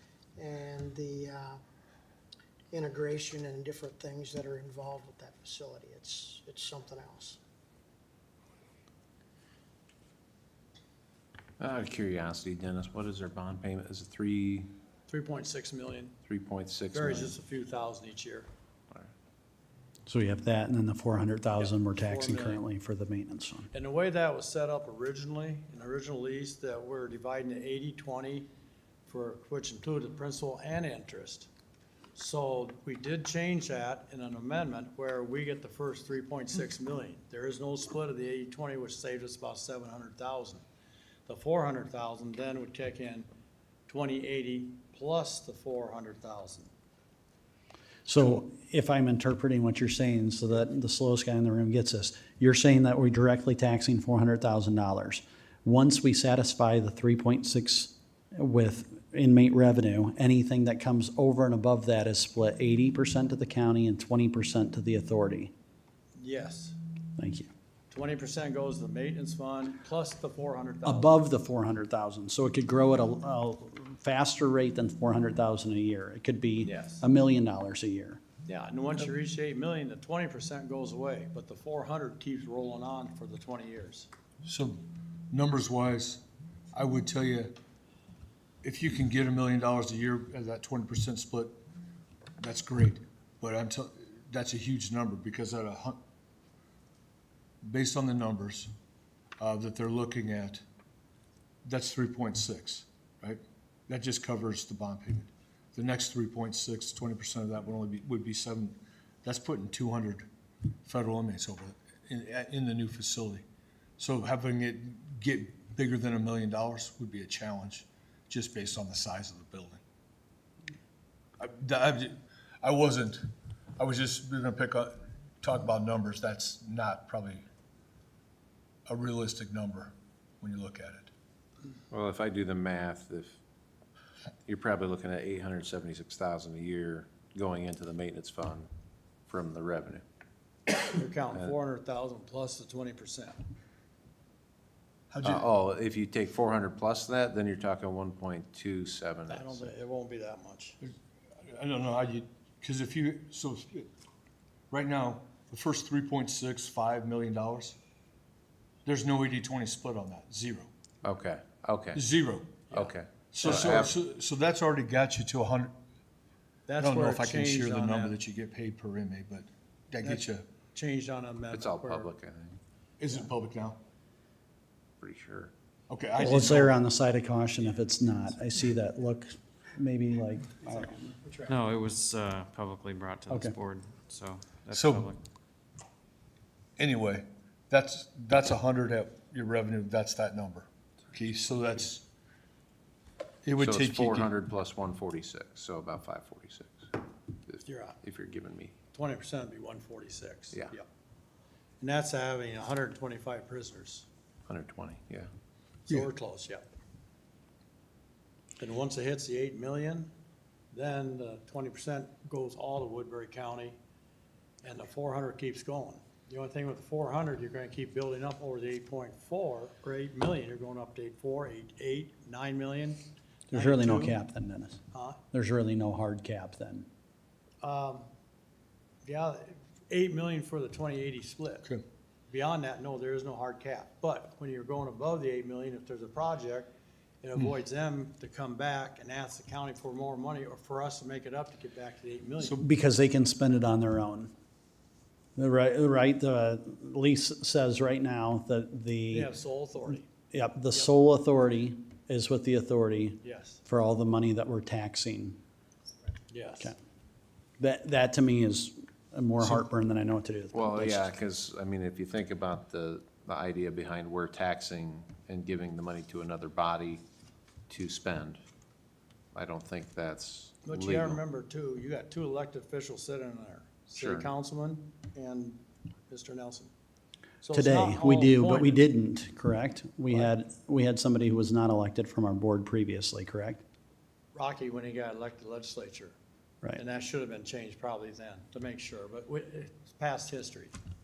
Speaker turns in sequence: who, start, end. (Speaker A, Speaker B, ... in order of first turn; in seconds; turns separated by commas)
Speaker A: 0.4-1.6, Speaker A: 2.7-7.4, Speaker B: 11.6-14.7, Speaker C: 15.1-16.2, Speaker B: 16.2-17.4, Speaker C: 16.9-18.5, Speaker D: 20.1-23.7, Speaker C: 21.9-22.6, Speaker C: 23.7-28.5, Speaker C: 29.1-31.5, Speaker C: 32.1-40.6, Speaker C: 41.3-43.3, Speaker C: 43.9-46.7, Speaker D: 48.0-65.5, Speaker C: 66.2-66.8, Speaker D: 67.2-67.5, Speaker C: 67.9-71.1, Speaker D: 70.8-78.2, Speaker C: 76.6-77.0, Speaker C: 78.4-84.1, Speaker E: 84.4-86.2, Speaker E: 86.7-87.5, Speaker E: 88.6-91.5, Speaker E: 92.4-96.0, Speaker E: 97.6-98.7, Speaker E: 99.4-100.6, Speaker E: 101.6-110.2, Speaker E: 110.8-113.4, Speaker E: 114.0-119.8, Speaker E: 121.4-123.3, Speaker E: 123.8-127.4, Speaker E: 128.9-131.1, Speaker B: 131.9-133.4, Speaker B: 134.4-138.7, Speaker B: 139.3-140.0, Speaker C: 140.8-143.4, Speaker E: 145.1-145.5, Speaker B: 145.2-149.7, Speaker C: 149.3-150.8, Speaker E: 151.4-153.9, Speaker E: 154.7-157.8, Speaker E: 158.8-160.7, Speaker B: 161.0-162.0, Speaker E: 161.9-162.8, Speaker B: 162.7-163.9, Speaker E: 163.3-165.7, Speaker C: 163.4-163.9, Speaker C: 166.7-168.2, Speaker E: 166.8-170.4, Speaker C: 170.0-172.1, Speaker B: 171.5-172.6, Speaker E: 173.0-173.8, Speaker B: 175.0-175.5, Speaker E: 175.9-176.8, Speaker D: 176.2-181.1, Speaker F: 181.5-185.2, Speaker D: 183.3-183.6, Speaker E: 184.7-185.1, Speaker E: 186.8-192.0, Speaker E: 193.4-194.3, Speaker B: 193.6-198.7, Speaker C: 197.6-198.0, Speaker C: 198.9-200.8, Speaker C: 201.8-204.1, Speaker B: 204.5-205.3, Speaker C: 205.9-206.7, Speaker C: 208.6-210.1, Speaker C: 210.7-213.8, Speaker C: 214.6-224.2, Speaker D: 223.5-226.9, Speaker C: 224.9-225.2, Speaker C: 227.6-228.1, Speaker C: 229.0-231.7, Speaker C: 232.3-236.7, Speaker C: 237.2-242.6, Speaker D: 242.5-244.3, Speaker D: 245.3-249.3, Speaker C: 249.1-250.1, Speaker D: 250.3-255.4, Speaker C: 253.2-253.6, Speaker C: 256.3-256.7, Speaker D: 257.6-261.1, Speaker B: 260.5-267.0, Speaker B: 267.7-268.4, Speaker B: 269.3-271.2, Speaker C: 270.6-276.7, Speaker B: 273.9-274.3, Speaker C: 277.4-278.8, Speaker D: 277.5-283.6, Speaker C: 284.3-286.1, Speaker C: 286.8-290.7